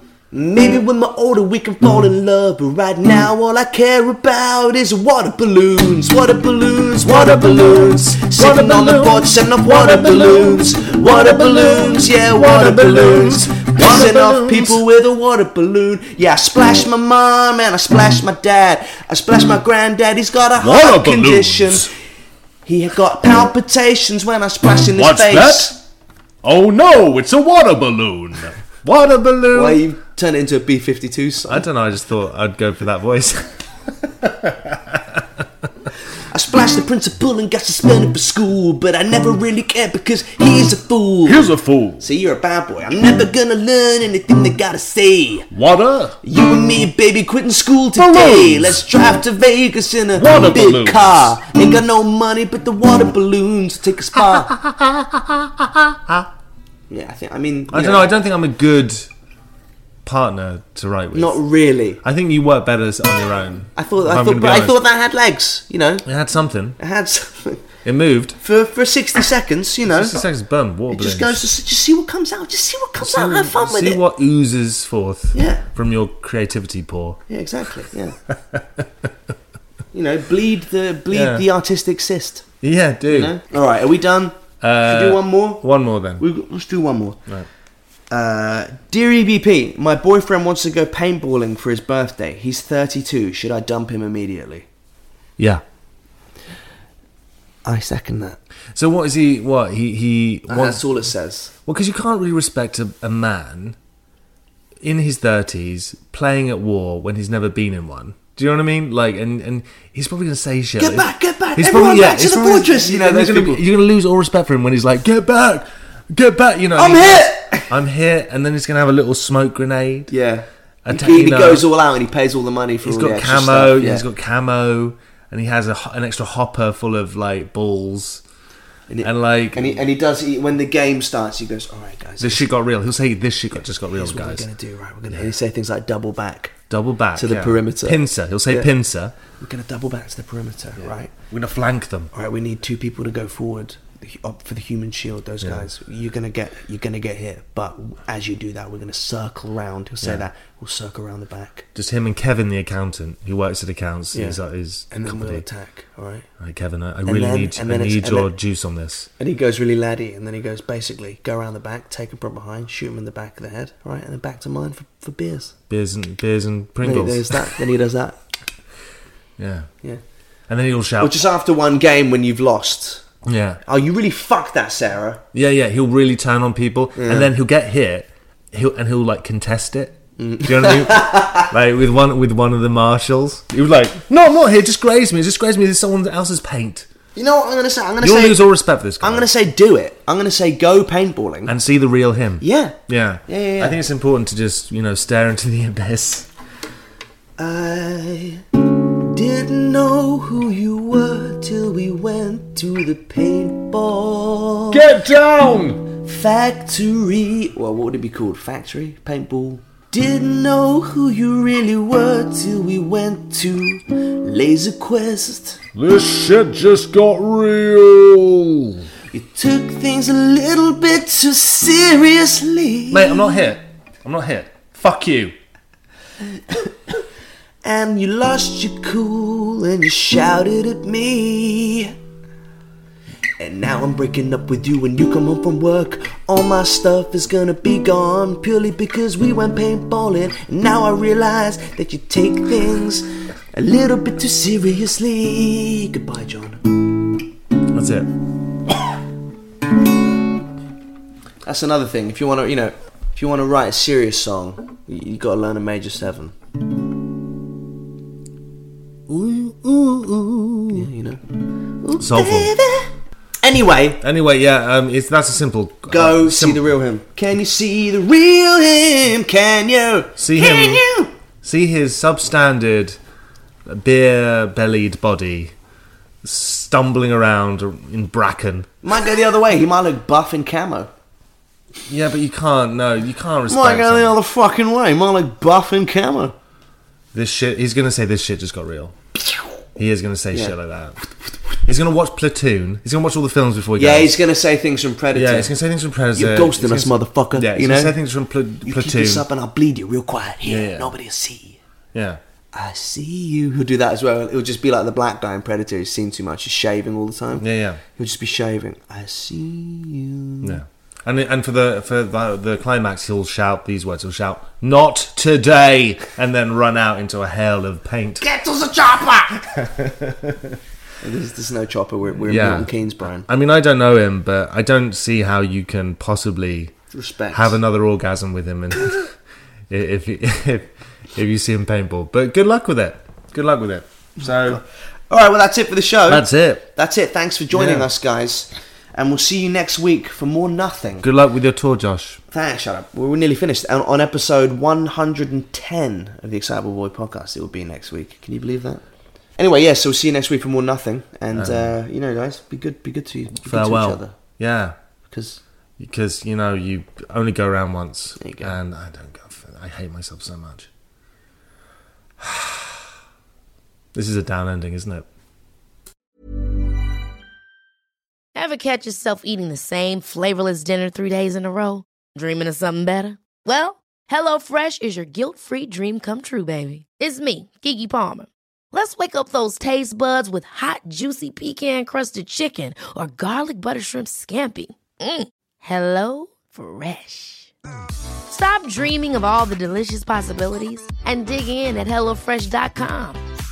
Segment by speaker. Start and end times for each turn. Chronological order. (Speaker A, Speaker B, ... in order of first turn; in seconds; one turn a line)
Speaker A: 0.3-21.9
Speaker B: 7.0-14.8
Speaker B: 20.6-21.9
Speaker A: 22.6-25.8
Speaker B: 24.9-25.8
Speaker B: 26.4-29.8
Speaker A: 29.5-31.6
Speaker B: 31.5-35.4
Speaker A: 36.3-45.5
Speaker B: 41.2-42.0
Speaker B: 45.5-46.2
Speaker A: 46.2-54.5
Speaker B: 48.0-48.8
Speaker B: 50.1-51.4
Speaker B: 54.2-56.3
Speaker A: 56.9-58.1
Speaker B: 57.7-59.1
Speaker B: 60.0-61.4
Speaker A: 61.1-62.0
Speaker B: 62.0-64.8
Speaker A: 63.7-66.0
Speaker B: 66.0-66.8
Speaker A: 66.8-67.6
Speaker B: 67.8-68.4
Speaker A: 68.4-70.2
Speaker B: 69.8-71.4
Speaker A: 70.9-74.0
Speaker B: 73.0-77.2
Speaker A: 75.3-75.7
Speaker A: 77.3-78.2
Speaker B: 78.3-79.1
Speaker A: 79.9-82.5
Speaker B: 81.1-81.4
Speaker B: 82.6-83.3
Speaker A: 83.1-85.6
Speaker B: 84.6-86.2
Speaker A: 86.2-87.2
Speaker A: 88.1-94.7
Speaker B: 95.4-95.6
Speaker A: 97.6-98.4
Speaker B: 98.7-100.9
Speaker A: 100.5-101.5
Speaker B: 101.7-103.8
Speaker B: 104.8-120.1
Speaker A: 110.8-113.6
Speaker A: 116.7-117.7
Speaker A: 120.1-124.1
Speaker B: 120.8-121.7
Speaker B: 122.8-128.2
Speaker A: 128.9-132.5
Speaker B: 129.0-129.8
Speaker B: 132.2-134.4
Speaker A: 133.6-136.5
Speaker B: 136.7-139.1
Speaker A: 137.2-138.7
Speaker A: 139.3-141.1
Speaker B: 141.2-142.1
Speaker A: 142.1-151.7
Speaker B: 151.7-155.4
Speaker A: 154.1-154.4
Speaker A: 154.9-156.2
Speaker B: 156.4-159.1
Speaker A: 157.0-158.3
Speaker A: 159.2-165.5
Speaker B: 165.7-167.6
Speaker A: 166.8-168.2
Speaker B: 169.4-169.7
Speaker B: 170.5-171.2
Speaker A: 171.0-173.0
Speaker B: 173.2-173.6
Speaker A: 173.6-175.2
Speaker B: 175.3-186.9
Speaker A: 176.9-177.3
Speaker A: 180.2-181.5
Speaker A: 187.1-188.4
Speaker B: 188.0-189.3
Speaker A: 189.0-191.5
Speaker B: 191.4-196.3
Speaker A: 192.4-193.8
Speaker A: 197.4-204.8
Speaker B: 204.7-205.9
Speaker A: 206.0-215.6
Speaker B: 215.7-218.9
Speaker A: 219.1-223.3
Speaker B: 222.9-225.3
Speaker A: 226.5-226.9
Speaker A: 227.6-231.9
Speaker A: 233.4-246.7
Speaker B: 247.7-248.1
Speaker A: 251.4-256.3
Speaker B: 259.1-260.7
Speaker A: 260.7-262.9
Speaker B: 262.0-262.5
Speaker A: 263.4-264.0
Speaker B: 264.0-266.6
Speaker A: 265.9-271.1
Speaker B: 270.2-270.9
Speaker B: 271.4-273.0
Speaker B: 273.6-275.5
Speaker B: 276.2-278.7
Speaker A: 278.8-280.9
Speaker B: 281.9-284.2
Speaker A: 283.5-286.3
Speaker B: 287.1-288.9
Speaker B: 289.8-291.0
Speaker B: 291.6-294.2
Speaker A: 293.8-295.5
Speaker B: 295.1-299.2
Speaker A: 296.1-297.9
Speaker A: 298.6-301.6
Speaker B: 300.4-300.9
Speaker B: 301.9-302.2
Speaker A: 302.5-310.6
Speaker B: 307.4-307.8
Speaker B: 310.4-318.2
Speaker A: 318.2-319.7
Speaker B: 319.6-320.6
Speaker A: 321.0-323.3
Speaker B: 322.2-326.8
Speaker A: 326.9-327.6
Speaker B: 327.3-329.1
Speaker B: 329.7-334.6
Speaker A: 334.2-341.1
Speaker B: 336.1-336.6
Speaker B: 337.5-337.9
Speaker B: 341.0-342.2
Speaker A: 342.3-348.8
Speaker A: 349.4-354.1
Speaker B: 351.3-351.7
Speaker B: 353.4-354.8
Speaker A: 355.0-355.4
Speaker B: 355.8-360.7
Speaker A: 358.2-358.6
Speaker B: 362.2-362.7
Speaker B: 363.9-365.1
Speaker C: 368.3-387.5
Speaker C: 388.3-393.2